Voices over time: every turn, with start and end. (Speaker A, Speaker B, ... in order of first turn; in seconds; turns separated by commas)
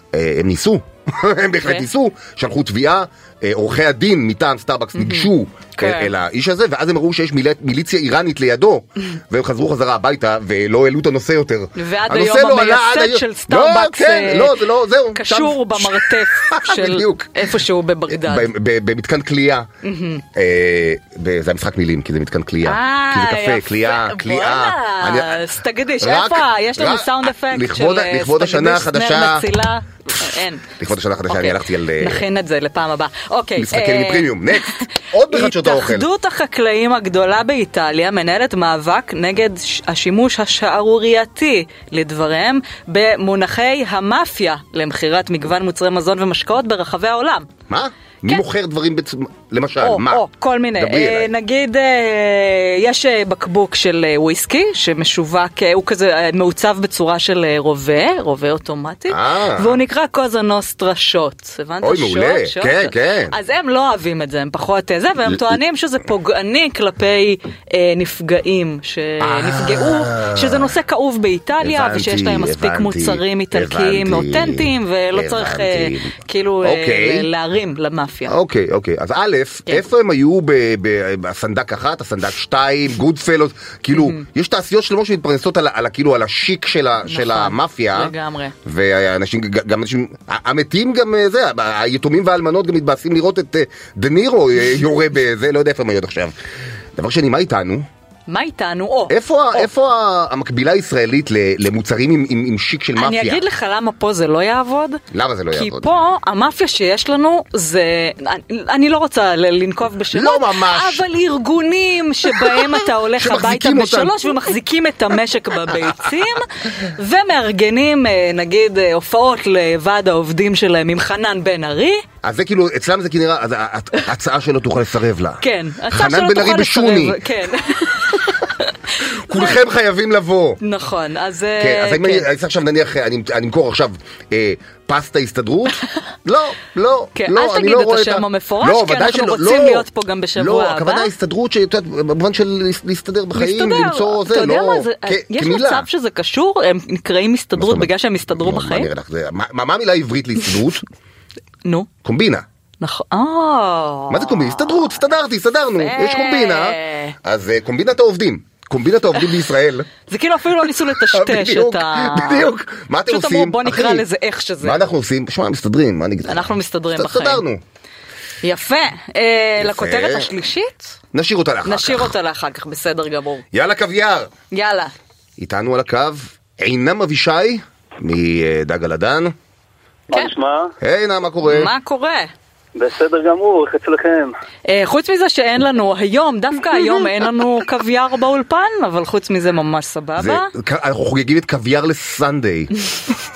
Speaker A: 0.1-17.5, Speaker B: 1.6-1.9, Speaker B: 4.9-6.1, Speaker B: 11.7-14.6, Speaker B: 15.1-18.5, Speaker A: 18.1-19.7, Speaker B: 19.8-20.2, Speaker A: 20.3-29.4, Speaker B: 22.6-30.7, Speaker A: 30.7-32.2, Speaker B: 31.3-47.5, Speaker A: 33.5-36.1, Speaker A: 47.7-51.3, Speaker B: 49.8-78.4, Speaker A: 59.1-59.8, Speaker A: 61.8-63.3, Speaker A: 65.2-65.5, Speaker A: 69.2-70.7, Speaker A: 71.6-77.3, Speaker A: 78.3-88.1, Speaker B: 83.9-84.2, Speaker B: 87.0-88.5, Speaker A: 88.6-96.3, Speaker A: 97.0-97.9, Speaker B: 98.3-99.7, Speaker A: 99.1-103.4, Speaker B: 103.0-122.0, Speaker A: 105.1-105.9, Speaker A: 110.1-111.0, Speaker A: 112.3-114.4, Speaker A: 115.7-116.1, Speaker A: 122.2-127.2, Speaker B: 125.4-129.6, Speaker A: 129.0-130.6, Speaker B: 130.6-132.3, Speaker A: 131.6-145.9, Speaker B: 137.1-141.1, Speaker B: 143.3-148.9, Speaker A: 147.6-150.8, Speaker A: 152.0-152.4, Speaker B: 152.8-155.1, Speaker A: 154.1-159.9, Speaker B: 155.8-157.1, Speaker B: 160.1-162.5, Speaker A: 160.6-164.1, Speaker B: 163.1-164.8, Speaker A: 164.6-167.6, Speaker B: 166.2-167.4, Speaker B: 168.4-171.0, Speaker A: 169.6-170.3, Speaker A: 171.1-172.1, Speaker B: 171.6-173.4, Speaker A: 173.5-174.3, Speaker B: 174.5-174.9, Speaker A: 175.4-179.3, Speaker C: 180.1-180.7, Speaker A: 180.8-181.7, Speaker B: 181.4-182.3, Speaker C: 182.7-184.3, Speaker B: 184.7-190.5, Speaker A: 190.2-192.7